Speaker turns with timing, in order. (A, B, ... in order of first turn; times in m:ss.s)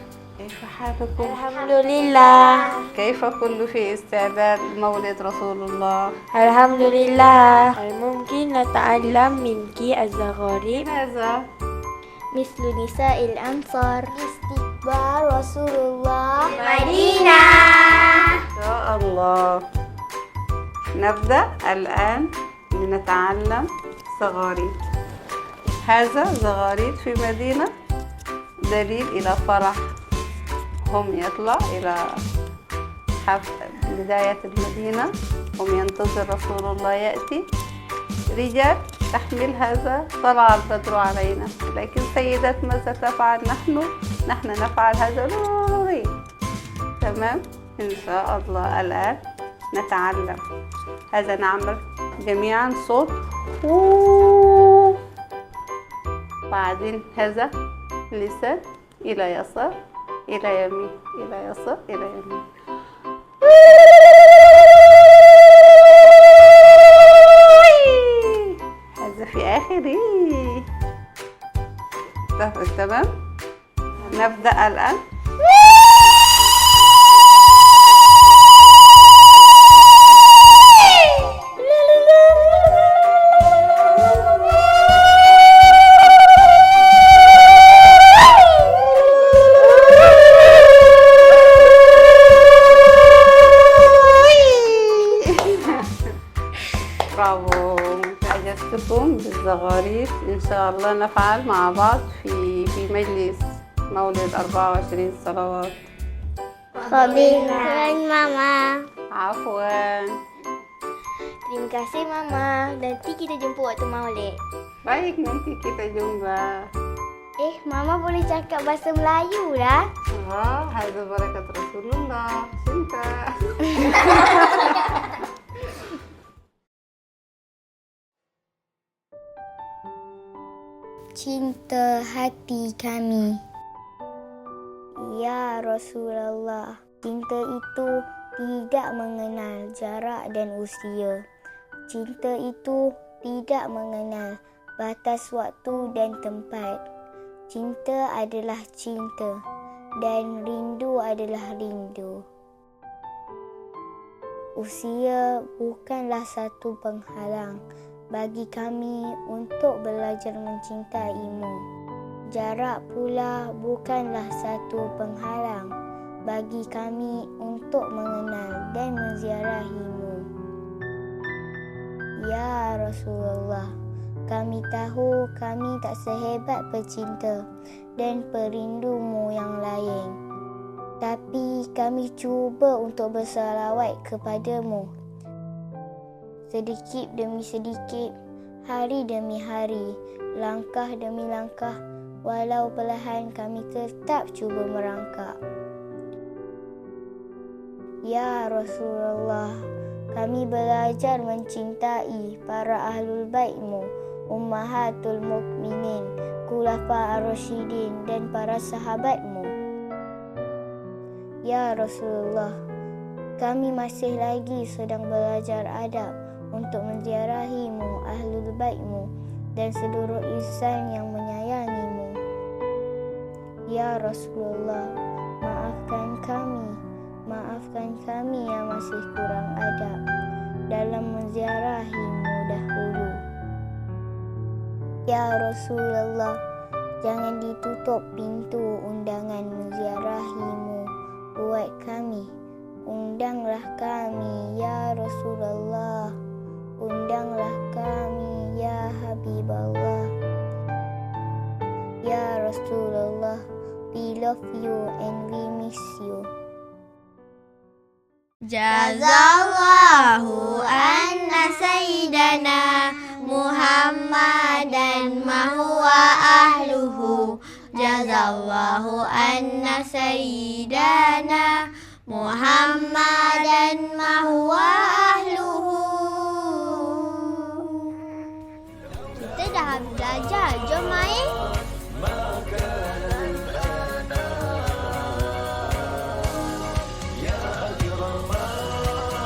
0:00.4-0:01.4 A
0:01.2-0:02.9 B
0:02.9-0:06.2 A
0:06.3-0:10.9 B
0:10.7-0:11.4 A
0:12.3-0:14.1 C
0:14.1-0:16.6 D
0:16.5-0:17.1 B
0:16.6-0:17.2 C
0:18.6-0:19.6 A
0:21.0-0:24.8 A
0:25.8-0:27.7 A
0:28.7-0:29.9 A
0:30.9-0:32.0 A
0:33.2-0:37.4 A
0:38.3-0:46.1 A
0:47.0-0:49.2 A
0:49.7-0:50.4 A
0:51.1-0:55.0 A
0:56.5-0:57.5 A
0:58.1-0:59.7 A
1:00.3-1:02.4 A
1:07.2-1:10.7 A
1:12.4-1:13.1 A
1:14.0-1:15.0 A
1:33.8-1:36.0 A
1:37.1-1:45.7 A
1:46.9-1:48.0 D
1:46.9-1:47.9 C
1:49.1-1:50.1 A
1:51.5-1:54.4 C
1:54.8-1:56.7 A
1:57.4-1:59.8 D
2:00.2-2:05.1 A
2:11.2-2:13.4 D
2:15.0-2:21.2 D
2:21.9-2:26.8 D
2:27.5-2:29.4 D
2:30.0-2:32.2 D
2:34.6-2:37.6 D
2:38.1-2:41.6 D
2:42.3-2:45.7 D
2:46.3-2:50.3 D
2:52.2-2:53.7 D
2:54.3-2:57.5 D
2:58.0-3:00.2 D
3:01.0-3:04.9 D
3:06.5-3:08.1 D
3:08.7-3:15.4 D
3:18.0-3:29.6 D
3:31.4-3:32.6 D
3:33.4-3:42.2 D
3:43.7-3:50.0 D
3:50.7-3:53.2 D
3:55.1-3:56.4 D
3:57.0-4:02.3 D
4:02.9-4:06.1 D
4:06.8-4:10.1 D
4:12.0-4:16.3 D
4:18.5-4:37.3 E
4:39.2-4:40.0 C
4:40.7-4:41.3 C